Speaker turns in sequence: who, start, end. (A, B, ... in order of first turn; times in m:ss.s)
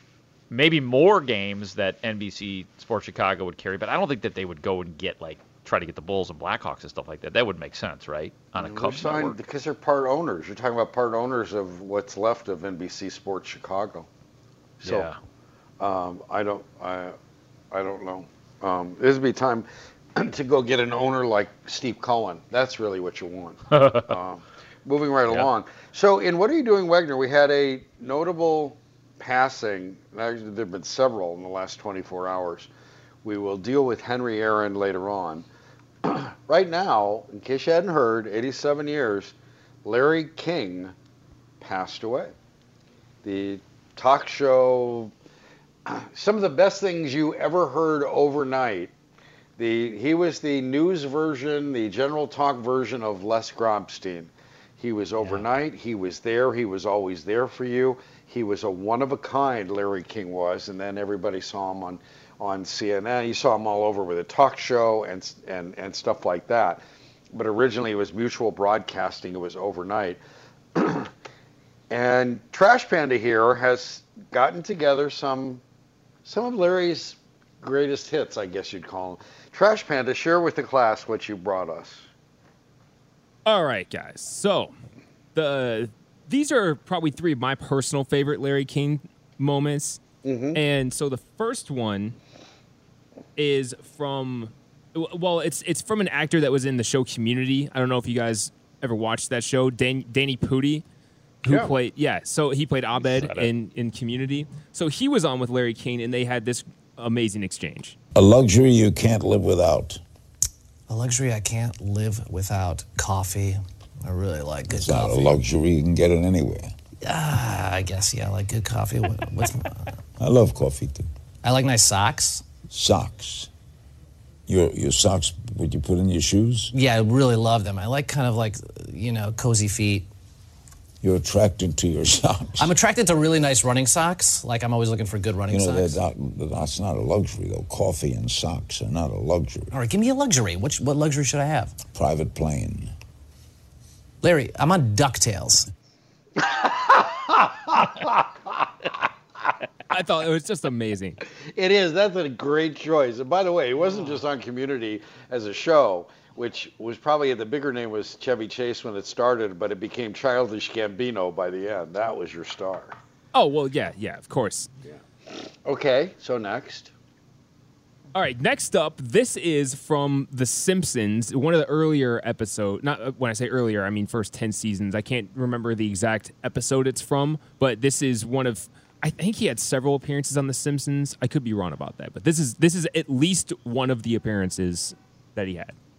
0:00.5-0:09.4 A
0:08.6-0:14.1 B
0:14.8-0:15.1 B
0:14.8-0:15.2 A
0:15.8-0:17.2 B
0:17.7-0:32.7 B
0:23.7-0:24.1 A
0:33.2-0:35.5 B
0:36.0-0:41.0 B
0:41.6-0:42.3 B
0:43.2-0:45.1 B
0:45.9-0:48.9 B
0:49.6-1:10.2 B
1:10.8-1:11.1 B
1:11.9-1:15.6 B
1:16.2-1:22.1 B
1:23.4-1:24.7 C
1:25.4-1:30.0 C
1:30.2-1:30.6 B
1:30.5-1:32.2 C
1:33.4-1:40.8 C
1:41.4-1:48.0 C
1:41.4-1:41.7 B
1:43.0-1:43.5 A
1:48.2-1:50.0 D
1:50.9-1:55.3 E
1:54.7-1:56.7 D
1:57.0-1:59.9 E
2:00.2-2:01.1 D
2:01.4-2:02.5 E
2:02.7-2:03.5 D
2:04.5-2:06.7 D
2:06.7-2:10.1 E
2:11.0-2:12.7 D
2:12.6-2:16.0 E
2:15.5-2:19.7 D
2:19.7-2:21.8 E
2:21.9-2:22.9 D
2:24.2-2:25.7 E
2:26.4-2:28.5 B
2:29.9-2:31.2 C
2:31.6-2:43.0 B
2:43.3-2:44.7 C
2:45.6-2:46.9 B
2:48.1-3:05.8 C